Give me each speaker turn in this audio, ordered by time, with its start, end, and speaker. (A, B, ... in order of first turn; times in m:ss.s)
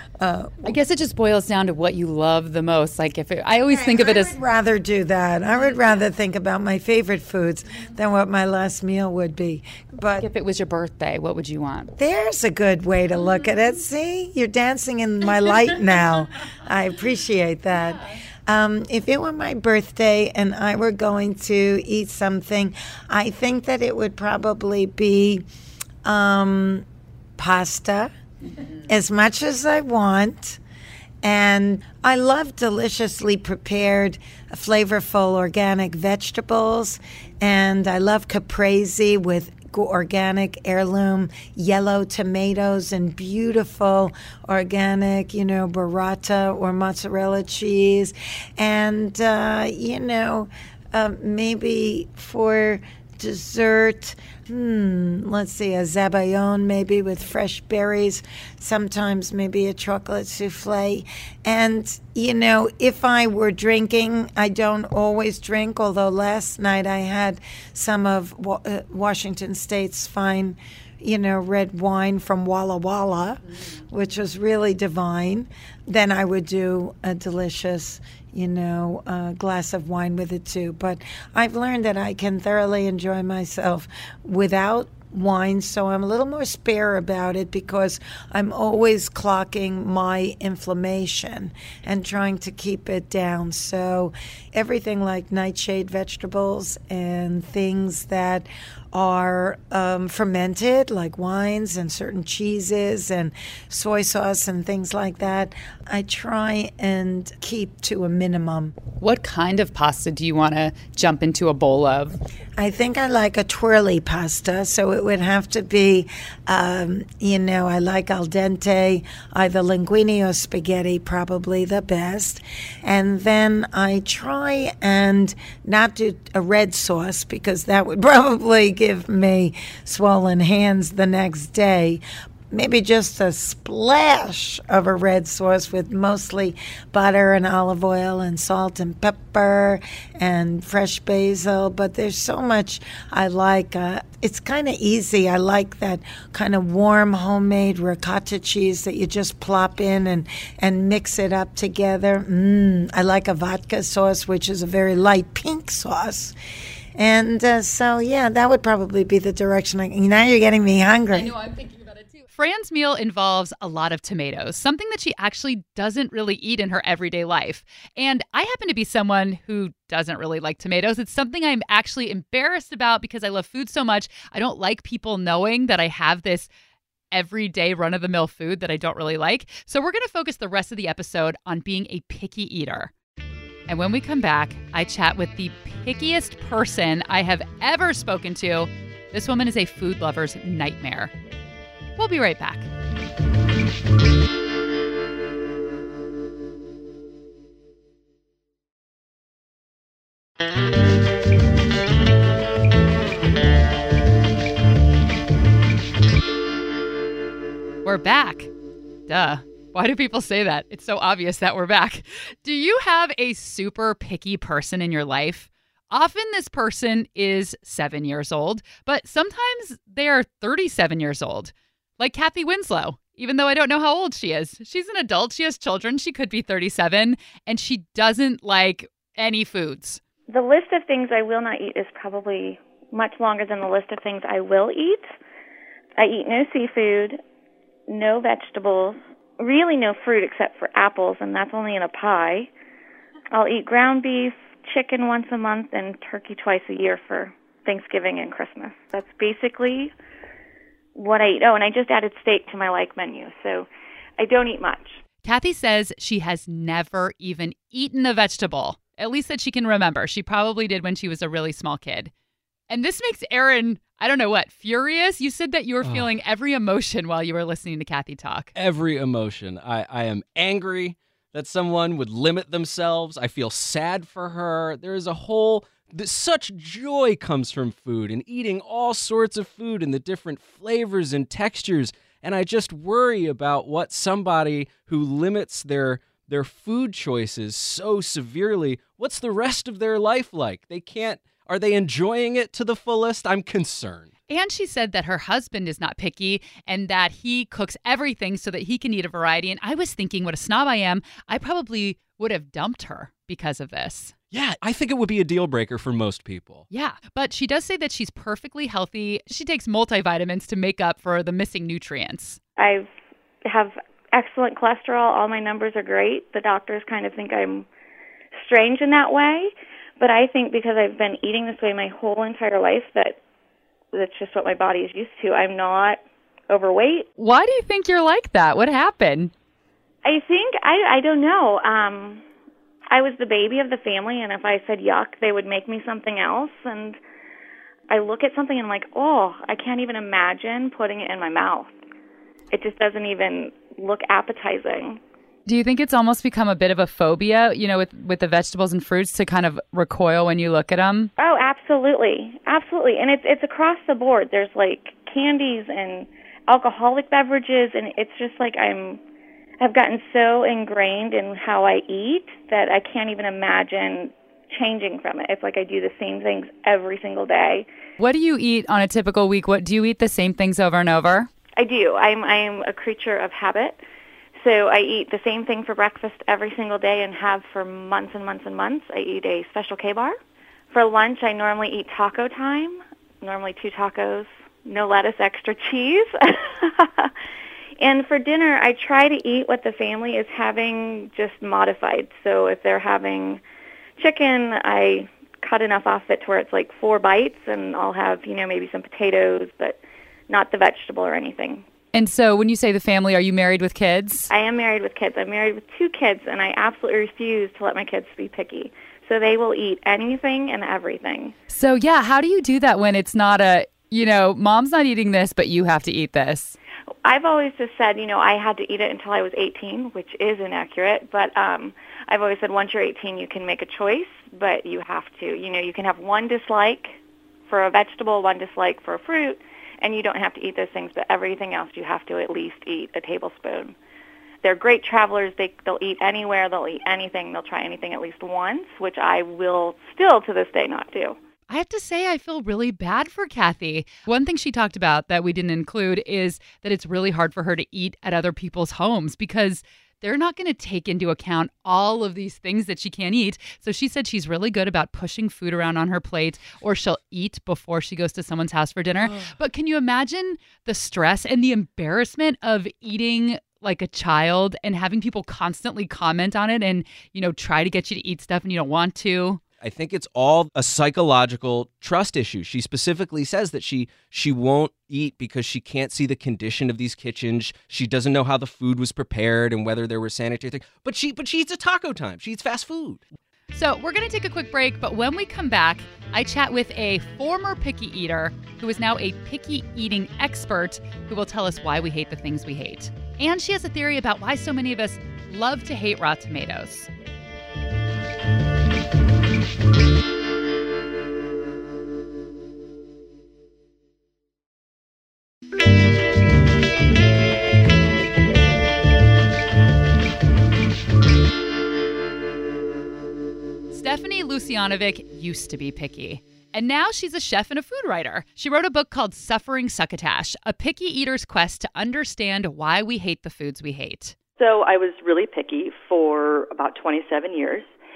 0:00.2-0:00.8 A
0:00.6-0:04.3 B
0:03.7-0:10.3 A
0:10.2-0:11.9 B
0:12.0-0:25.4 A
0:26.0-0:26.8 A
0:27.4-0:28.1 A
0:28.8-0:30.6 A
0:31.2-1:48.8 A
1:49.0-1:52.2 B
1:52.6-2:36.4 A
2:37.0-2:41.3 A
2:41.1-2:56.5 B
2:57.1-3:02.9 B
3:03.7-3:11.1 B
3:12.0-3:12.7 B
3:27.8-3:28.5 B
3:29.1-3:50.0 B
3:50.3-3:55.1 C
3:56.0-3:57.2 C
3:57.9-4:02.5 C
4:03.3-4:09.9 C
4:10.9-4:15.0 C
4:15.2-4:22.1 B
4:22.7-4:28.5 B
4:25.8-4:26.1 D
4:28.5-4:54.1 D
4:54.3-5:04.1 B
5:04.3-5:06.6 D
5:06.7-5:12.4 B
5:12.6-5:12.9 C
5:13.4-5:17.7 C
5:18.3-5:23.2 C
5:23.9-5:27.1 C
5:27.2-5:29.3 B
5:30.0-5:32.2 C
5:32.9-5:37.0 C
5:37.9-5:41.7 C
5:42.5-5:45.0 C
5:45.4-5:51.1 B
5:51.2-5:59.0 C
5:59.6-6:07.6 C
6:08.0-6:11.3 B
6:11.6-6:13.8 C
6:14.4-6:20.2 C
6:20.7-6:27.1 C
6:27.8-6:33.4 C
6:34.0-6:41.6 C
6:41.9-6:44.3 B
6:44.3-6:51.3 C
6:51.5-6:56.6 B
6:57.0-7:13.7 C
7:14.4-7:21.2 C
7:21.5-7:49.4 B
7:49.6-8:03.0 D
8:03.5-8:16.9 B
8:33.7-8:44.1 B
8:44.4-8:47.7 E